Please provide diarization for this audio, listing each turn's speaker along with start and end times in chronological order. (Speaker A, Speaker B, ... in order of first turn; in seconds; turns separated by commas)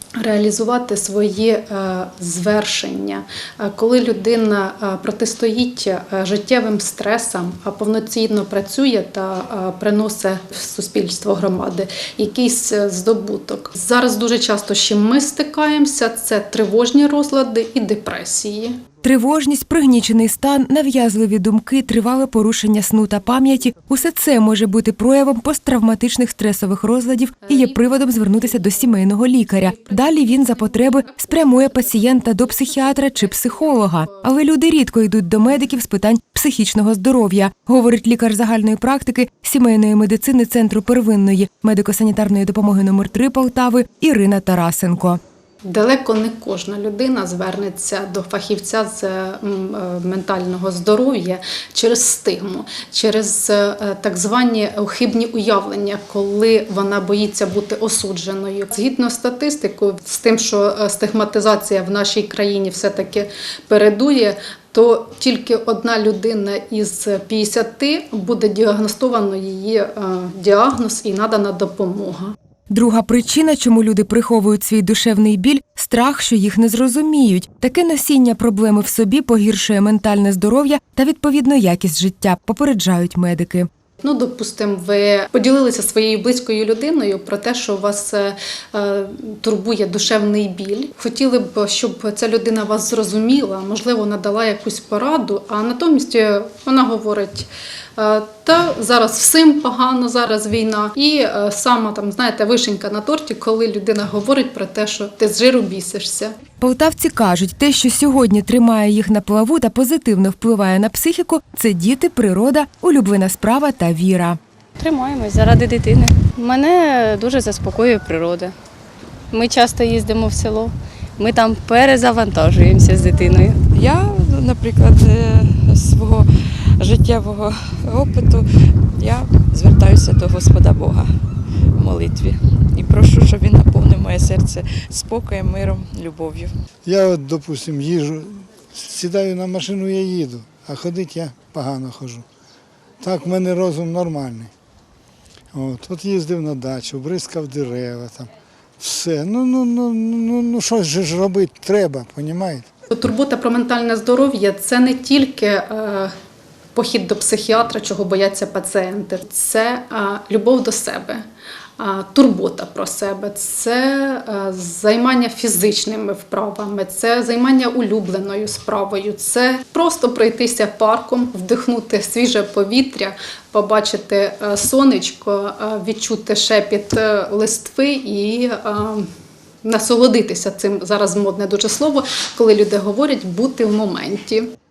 Speaker A: 0.2-18.8, Speaker B: 19.0-45.2, Speaker A: 27.5-34.2, Speaker A: 45.6-72.3, Speaker B: 72.7-83.7, Speaker A: 84.0-106.3, Speaker B: 106.6-114.4, Speaker C: 114.8-118.5, Speaker C: 119.3-123.6, Speaker D: 123.7-128.4, Speaker D: 129.0-131.1, Speaker D: 131.7-136.5, Speaker E: 136.8-142.2, Speaker E: 143.0-144.5, Speaker E: 145.5-152.7, Speaker A: 152.9-156.1, Speaker A: 156.7-161.2, Speaker A: 161.8-179.1, Speaker A: 179.6-184.5